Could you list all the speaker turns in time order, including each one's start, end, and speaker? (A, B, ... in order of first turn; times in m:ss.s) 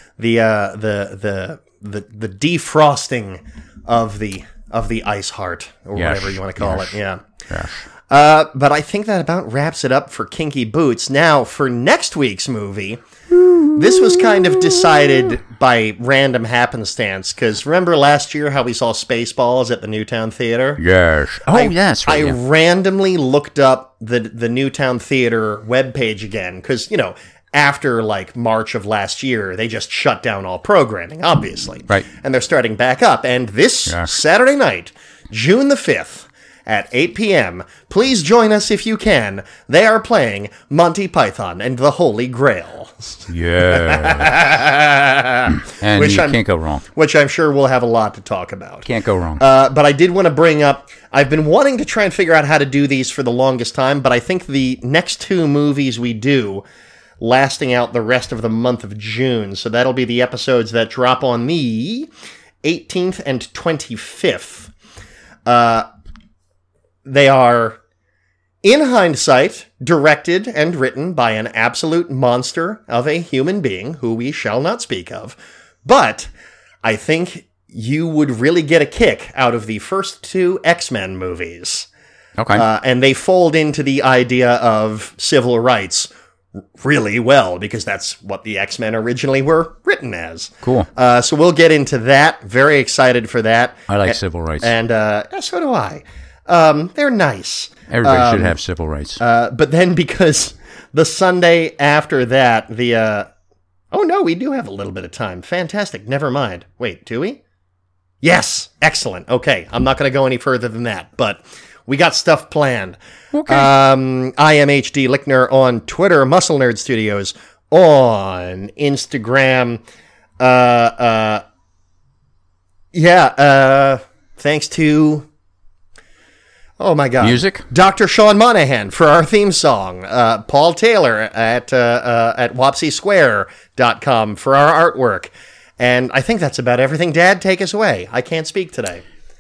0:00.2-0:07.2 A
0:06.0-0:07.9 B
0:08.1-0:13.0 A
0:13.4-0:13.8 B
0:13.7-0:20.8 A
0:20.8-0:22.4 B
0:21.5-0:48.9 A
0:33.9-0:34.1 B
0:43.3-0:44.4 B
0:45.7-0:46.8 B
0:48.8-0:49.4 B
0:49.4-0:56.6 A
0:57.2-1:02.1 A
1:02.6-1:04.7 A
1:05.5-1:05.9 A
1:07.0-1:07.8 A
1:08.6-1:16.3 A
1:16.8-1:21.9 A
1:22.4-1:22.7 B
1:22.5-1:26.1 A
1:26.8-1:38.6 A
1:30.6-1:30.9 B
1:33.9-1:34.7 B
1:37.9-1:39.2 B
1:39.2-1:43.3 A
1:43.9-1:47.4 A
1:48.2-1:59.8 A
1:53.3-1:53.7 B
2:00.4-2:01.4 A
2:02.9-2:05.3 A
2:06.8-2:19.0 A
2:07.2-2:07.7 B